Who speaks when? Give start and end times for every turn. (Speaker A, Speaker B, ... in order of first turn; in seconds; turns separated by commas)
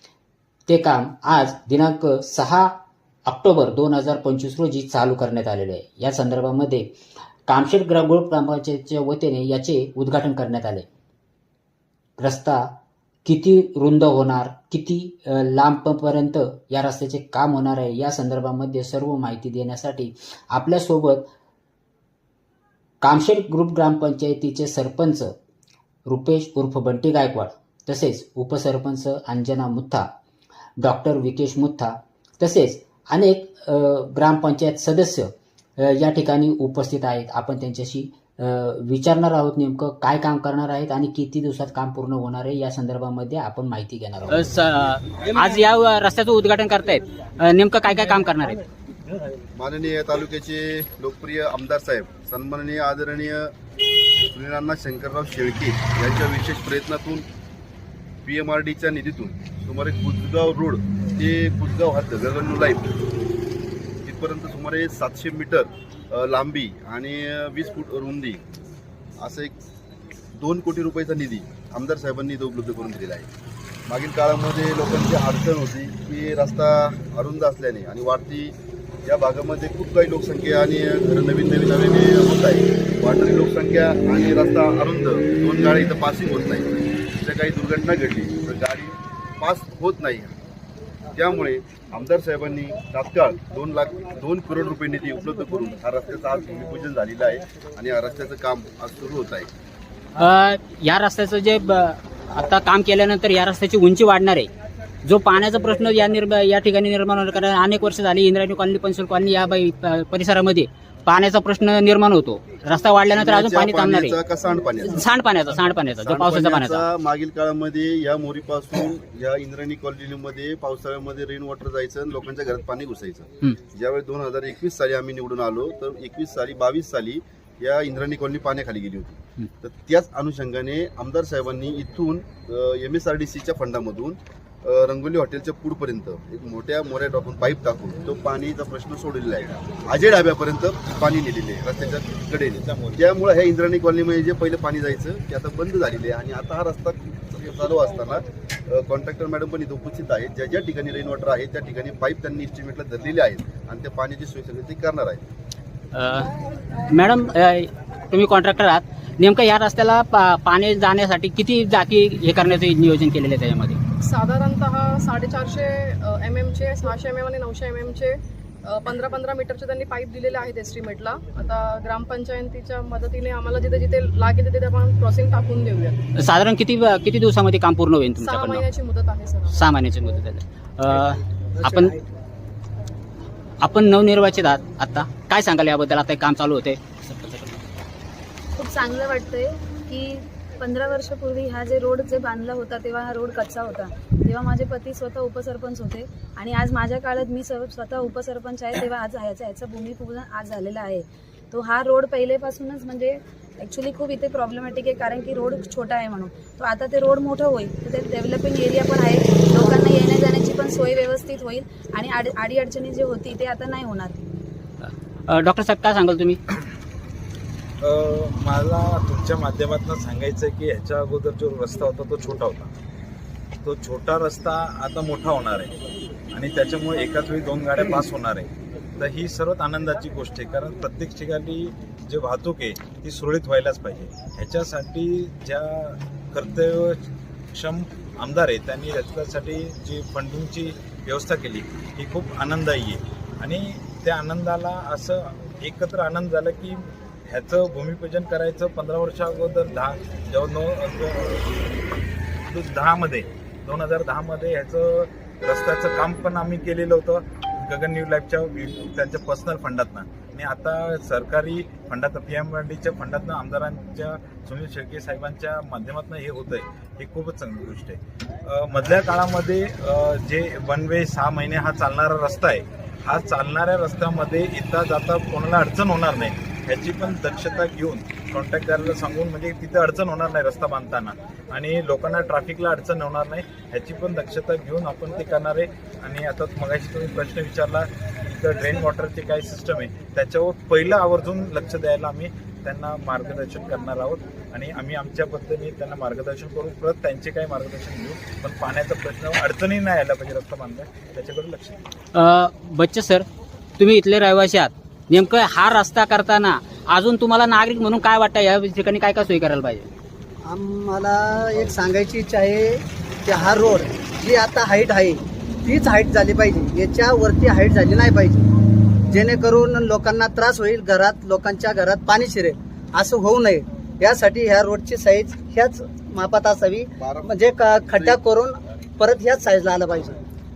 Speaker A: 0.7-2.7, Speaker A: 3.3-6.9, Speaker A: 7.5-10.9, Speaker A: 12.2-12.7, Speaker A: 13.2-21.2, Speaker A: 23.0-25.3, Speaker A: 26.1-30.1, Speaker A: 30.8-44.5, Speaker B: 44.3-48.6, Speaker C: 49.5-53.5, Speaker C: 54.2-57.2, Speaker C: 58.2-62.9, Speaker C: 64.0-68.4, Speaker C: 69.2-69.5, Speaker C: 70.4-73.3, Speaker C: 73.9-78.5, Speaker C: 79.0-90.3, Speaker C: 91.1-99.5, Speaker B: 100.2-104.5, Speaker B: 105.0-114.2, Speaker C: 113.1-115.0, Speaker B: 114.9-116.9, Speaker C: 116.0-155.2, Speaker D: 142.5-143.1, Speaker B: 155.9-156.3, Speaker B: 156.8-163.8, Speaker E: 164.0-176.0, Speaker B: 176.2-178.7, Speaker E: 178.2-179.6, Speaker B: 179.5-182.0, Speaker B: 183.6-187.6, Speaker F: 188.6-214.2, Speaker B: 215.3-216.4, Speaker D: 217.8-222.7, Speaker D: 223.6-225.7, Speaker D: 226.3-251.6, Speaker D: 252.5-301.8, Speaker B: 302.1-303.3, Speaker B: 303.8-309.9, Speaker G: 310.4-318.4, Speaker G: 319.1-330.1, Speaker C: 327.0-328.2